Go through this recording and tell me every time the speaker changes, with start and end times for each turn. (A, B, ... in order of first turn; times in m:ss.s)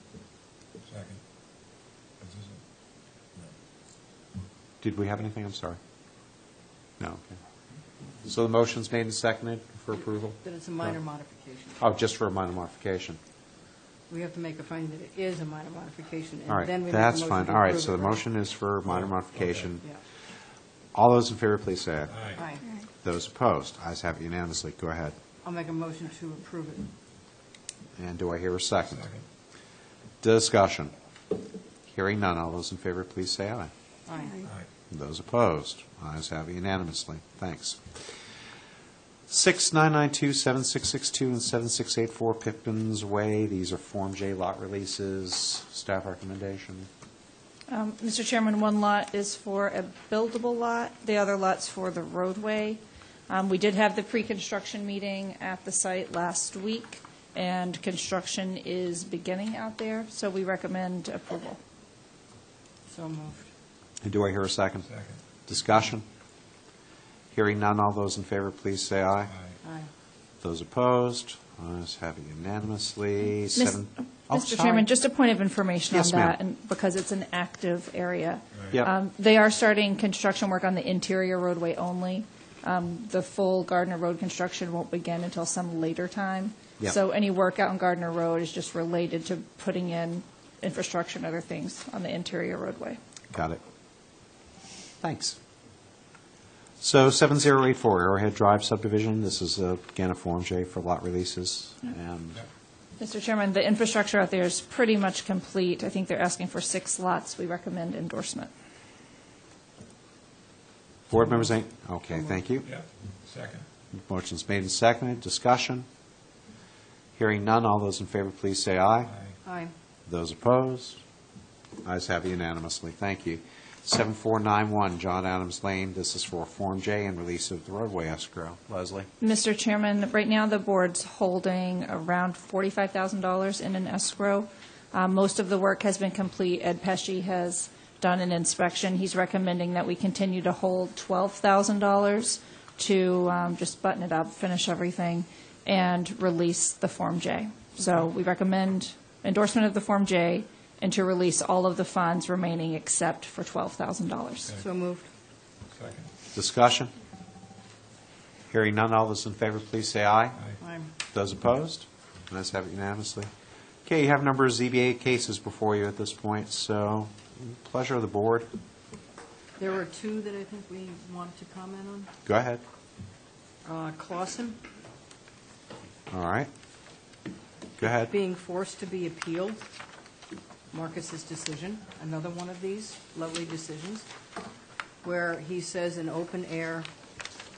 0:00.8-0:01.2 A
0:02.2-0:02.6 A
0:04.8-0:05.8 B
0:07.0-0:07.3 B
0:08.2-0:10.9 B
0:10.4-0:11.8 C
0:11.8-0:13.2 B
0:14.1-0:18.3 C
0:16.5-0:19.8 B
0:18.8-0:19.7 A
0:20.9-0:22.2 B
0:22.1-0:22.4 A
0:22.4-0:22.6 C
0:23.0-0:25.1 B
0:25.4-0:26.9 C
0:28.0-0:29.0 B
0:28.8-0:29.2 A
0:30.2-0:30.9 B
0:31.9-0:33.7 B
0:34.1-0:34.5 C
0:34.9-0:37.8 B
0:39.3-0:46.9 B
0:47.7-1:01.6 D
1:02.9-1:03.5 C
1:04.0-1:04.9 B
1:04.8-1:05.2 A
1:05.4-1:06.0 B
1:07.3-1:09.3 B
1:09.3-1:09.6 A
1:09.6-1:09.9 C
1:10.4-1:14.9 B
1:13.5-1:33.0 D
1:15.9-1:16.4 B
1:33.3-1:33.6 B
1:35.0-1:35.4 B
1:36.8-1:42.4 B
1:43.0-1:48.5 D
1:51.1-1:52.7 B
1:52.1-1:52.5 C
1:52.6-1:53.7 A
1:53.9-1:55.9 B
1:57.2-1:59.1 B
1:59.0-1:59.3 A
1:59.4-1:59.7 C
2:00.1-2:01.0 B
2:01.8-2:09.1 B
2:09.2-2:34.5 D
2:34.6-2:35.1 C
2:35.7-2:36.1 A
2:36.3-2:36.9 B
2:38.5-2:40.4 B
2:40.6-2:40.9 C
2:41.1-2:43.3 B
2:43.8-2:48.5 B
2:49.6-2:52.1 C
2:52.2-2:52.6 B
2:53.6-2:54.6 C
2:56.1-2:56.5 B
2:57.8-2:58.1 B
2:57.8-2:59.6 C
3:00.7-3:04.1 C
3:05.0-3:06.9 C